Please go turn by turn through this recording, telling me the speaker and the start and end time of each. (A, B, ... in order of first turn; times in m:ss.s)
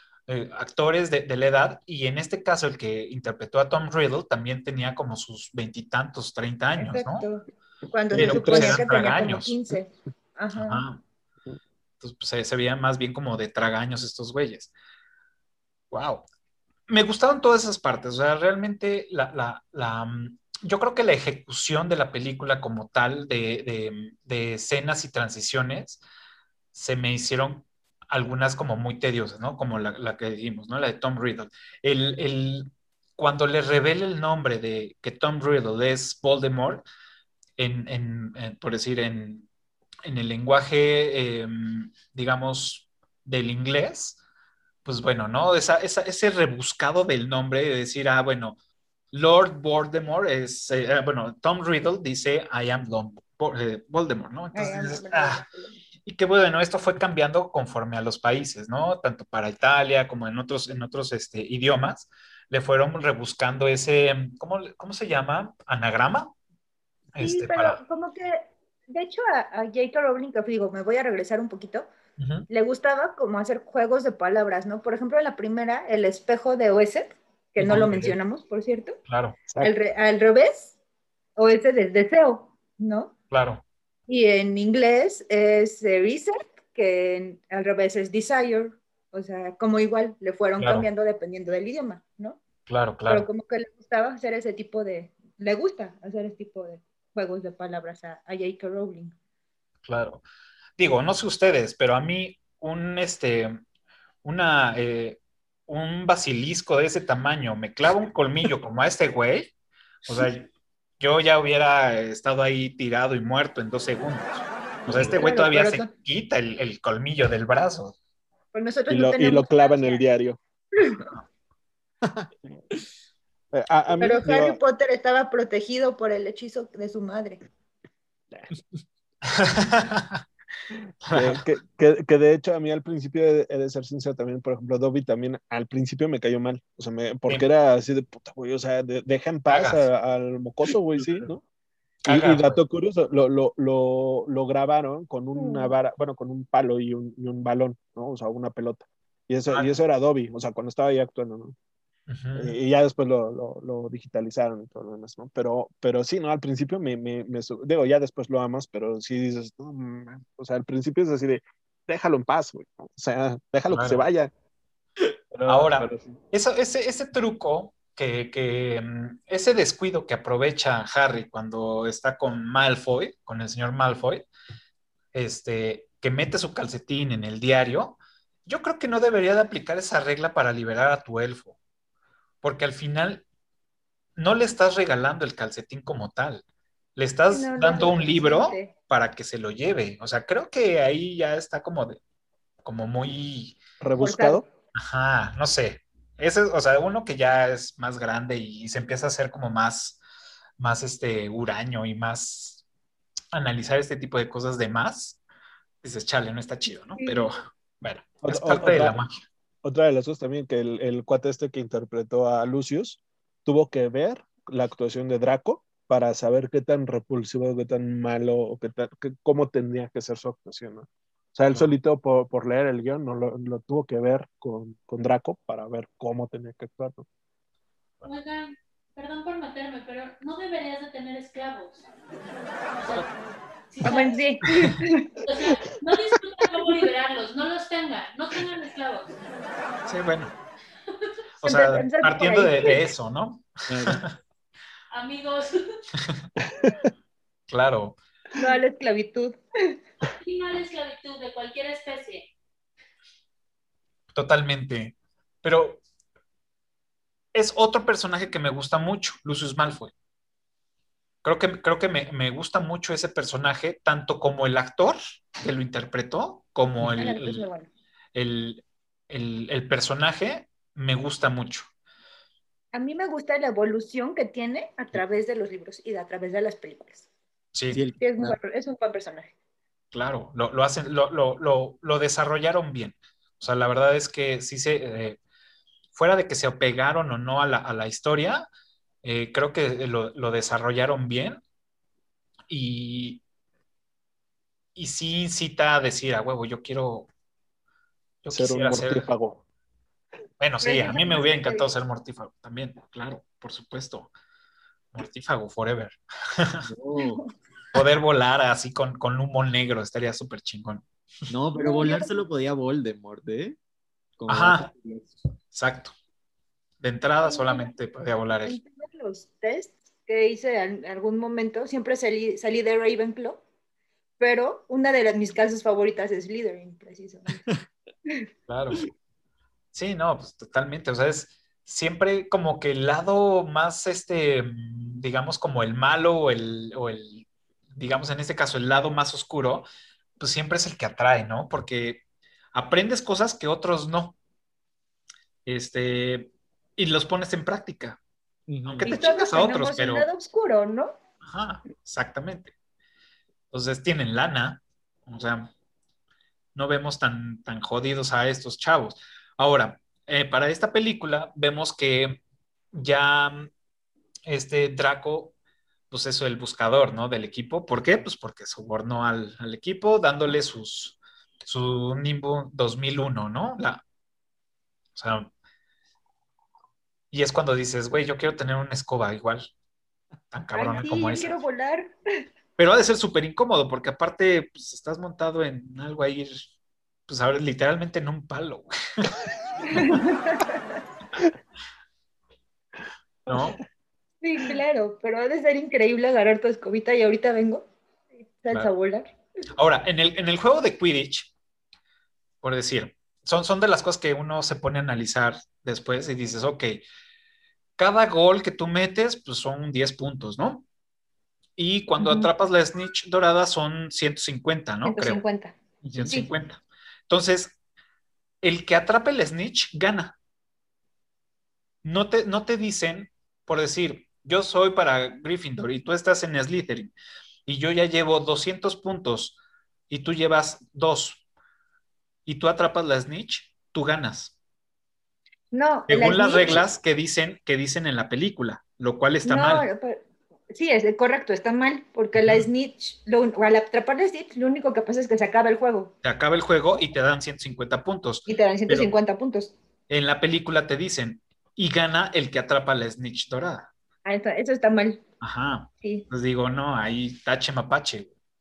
0:00.3-0:07.3 A
0:06.8-0:10.8 B
0:08.1-0:08.8 C
0:08.1-0:09.5 A
0:10.5-0:11.0 A
0:12.0-0:14.7 A
0:15.9-0:16.2 A
0:16.9-0:26.0 A
0:26.7-0:36.8 A
0:37.6-0:39.5 A
0:40.0-0:44.2 A
0:44.8-0:48.6 A
0:49.1-0:55.4 A
0:54.5-0:55.8 B
0:56.0-1:06.3 A
1:07.1-1:07.8 A
1:07.2-1:11.9 B
1:12.2-1:12.5 A
1:12.5-1:19.0 B
1:17.6-1:18.2 A
1:19.1-1:19.4 A
1:19.6-1:20.7 B
1:21.4-1:23.1 B
1:23.3-1:23.6 A
1:24.1-1:32.4 B
1:30.6-1:30.9 A
1:32.7-1:33.3 A
1:33.1-1:39.1 B
1:39.8-1:40.2 A
1:40.8-1:43.6 A
1:44.2-1:49.5 A
1:50.1-1:50.5 A
1:51.0-1:57.9 A
1:55.2-1:55.9 B
1:58.5-2:00.0 B
1:58.9-2:00.4 C
2:00.8-2:01.1 B
2:03.5-2:04.6 C
2:04.0-2:07.4 B
2:09.3-2:10.2 A
2:11.0-2:11.4 A
2:11.1-2:21.4 C
2:19.5-2:19.9 A
2:21.0-2:21.3 A
2:22.0-2:22.6 A
2:22.0-2:31.5 C
2:25.3-2:25.7 B
2:32.1-2:32.6 A
2:32.3-2:44.3 C
2:43.7-2:44.0 A
2:45.3-2:46.2 C
2:45.4-2:54.3 A
2:55.1-3:01.5 A
3:02.4-3:03.2 A
3:04.2-3:06.4 A
3:07.0-3:12.0 A
3:07.3-3:08.7 B
3:12.6-3:13.6 A
3:13.8-3:14.4 C
3:14.0-3:14.4 B
3:14.8-3:20.0 A
3:20.6-3:22.6 A
3:23.3-3:25.2 A
3:25.8-3:29.2 A
3:27.0-3:27.3 B
3:28.2-3:29.0 C
3:29.6-3:47.0 C
3:48.0-3:51.8 D
3:52.8-3:53.1 D
3:53.7-3:54.2 D
3:53.8-3:55.2 B
3:55.2-3:59.1 D
3:59.9-4:00.3 A
4:01.4-4:04.1 A
4:01.4-4:02.9 B
4:03.7-4:04.0 E
4:04.9-4:05.7 D
4:06.0-4:06.3 A
4:06.5-4:06.8 C
4:07.5-4:08.0 A
4:08.4-4:09.8 B
4:10.0-4:12.3 D
4:14.1-4:15.8 A
4:17.3-4:19.9 A
4:21.2-4:27.5 A
4:26.8-4:27.7 B
4:28.1-4:31.7 A
4:32.7-4:37.1 B
4:37.5-4:37.8 A
4:37.7-4:38.4 E
4:38.0-4:39.3 B
4:39.9-4:45.2 A
4:45.9-4:48.5 A
4:49.0-4:51.4 A
4:52.5-4:53.2 A
4:54.8-4:57.1 A
4:58.2-4:59.1 A
4:58.3-4:59.4 C
5:00.4-5:04.1 A
5:00.6-5:01.7 B
5:04.9-5:06.6 A
5:06.6-5:07.2 E
5:07.7-5:10.8 A
5:11.3-5:13.6 E
5:11.6-5:12.1 B
5:14.2-5:15.1 E
5:14.3-5:14.6 A
5:15.5-5:15.9 A
5:16.8-5:18.6 A
5:17.2-5:17.7 B
5:18.4-5:23.4 B
5:24.2-5:27.4 B
5:28.5-5:28.8 A
5:29.7-5:39.7 A
5:40.2-5:42.0 A
5:42.5-5:44.2 A
5:45.4-5:48.0 A
5:48.5-5:49.1 E
5:48.6-5:50.1 A
5:48.8-5:51.0 B
5:51.2-5:52.5 A
5:53.5-5:55.5 A
5:56.5-6:02.2 A
6:02.7-6:03.5 A
6:04.3-6:05.3 A
6:05.9-6:13.8 A
6:15.0-6:15.3 A
6:17.1-6:19.5 A
6:20.3-6:21.4 A
6:20.5-6:21.9 B
6:22.6-6:26.4 A
6:27.1-6:29.1 A
6:29.6-6:30.8 B
6:29.7-6:30.0 A
6:33.3-6:33.6 A
6:34.2-6:37.7 B
6:38.3-6:39.1 B
6:39.5-6:41.3 A
6:42.4-6:46.8 A
6:47.8-6:50.6 A
6:51.6-6:55.2 A
6:52.0-6:52.3 B
6:54.8-6:55.5 B
6:55.8-6:56.2 E
6:55.9-6:57.5 A
6:58.4-7:00.2 A
7:01.8-7:06.9 A
7:07.4-7:09.4 A
7:09.9-7:11.2 A
7:12.2-7:14.3 A
7:15.5-7:16.6 B
7:15.9-7:19.6 A
7:19.2-7:25.9 B
7:26.0-7:28.9 A
7:28.3-7:29.5 B
7:29.9-7:33.7 A
7:34.0-7:35.0 B
7:35.2-7:38.1 A
7:35.8-7:36.1 B